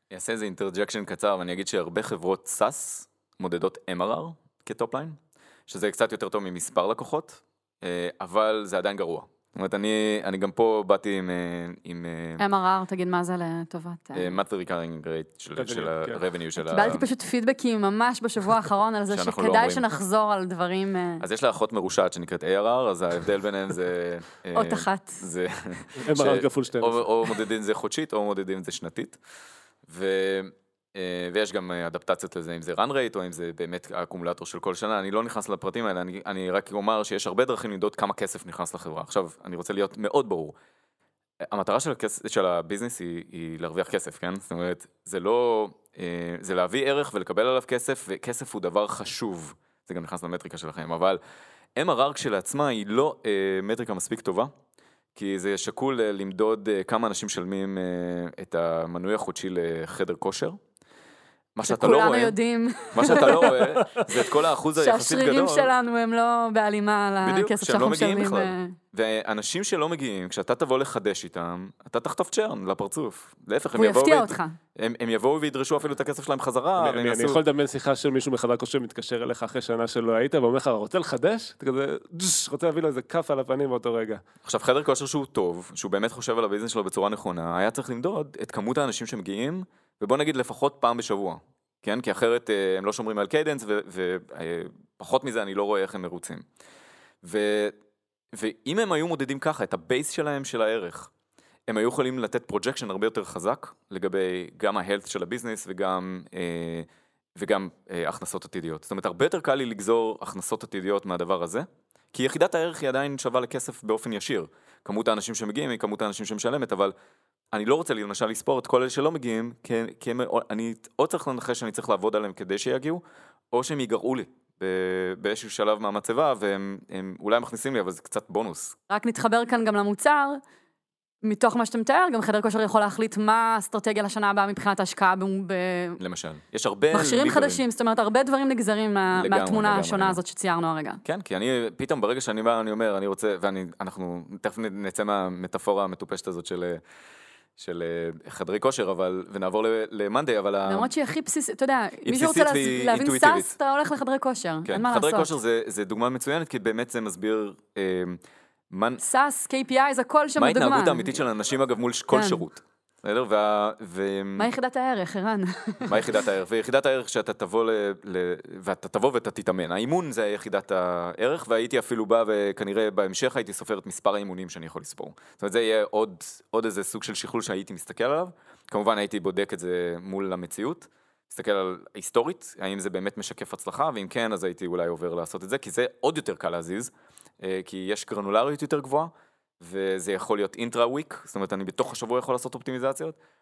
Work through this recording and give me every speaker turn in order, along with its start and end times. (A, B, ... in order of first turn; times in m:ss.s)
0:00.1-0:12.4 A
0:12.4-0:14.4 B
0:14.2-0:17.1 A
0:15.6-0:16.2 C
0:16.6-0:21.2 B
0:19.1-0:19.8 A
0:21.2-0:29.2 A
0:24.5-0:25.2 B
0:26.1-0:27.0 C
0:29.9-0:40.6 A
0:41.4-0:51.2 A
0:51.8-0:54.5 A
0:55.2-1:00.6 A
1:01.6-1:02.4 A
1:01.7-1:04.0 B
1:02.9-1:05.7 A
1:04.8-1:08.8 B
1:07.2-1:17.4 A
1:13.8-1:14.6 B
1:16.8-1:24.2 C
1:24.4-1:36.4 A
1:37.2-1:37.8 A
1:38.3-1:41.1 A
1:41.7-1:56.9 A
1:57.5-2:08.8 A
2:08.9-2:10.4 B
2:11.2-2:16.0 B
2:16.0-2:17.6 A
2:16.9-2:21.0 B
2:19.1-2:20.2 A
2:21.0-2:26.8 A
2:27.6-2:30.9 A
2:30.7-2:35.3 B
2:32.0-2:33.6 A
2:34.7-2:39.0 A
2:39.0-2:41.1 B
2:40.4-2:44.5 A
2:42.1-2:42.4 B
2:44.4-2:45.9 B
2:45.8-3:13.2 A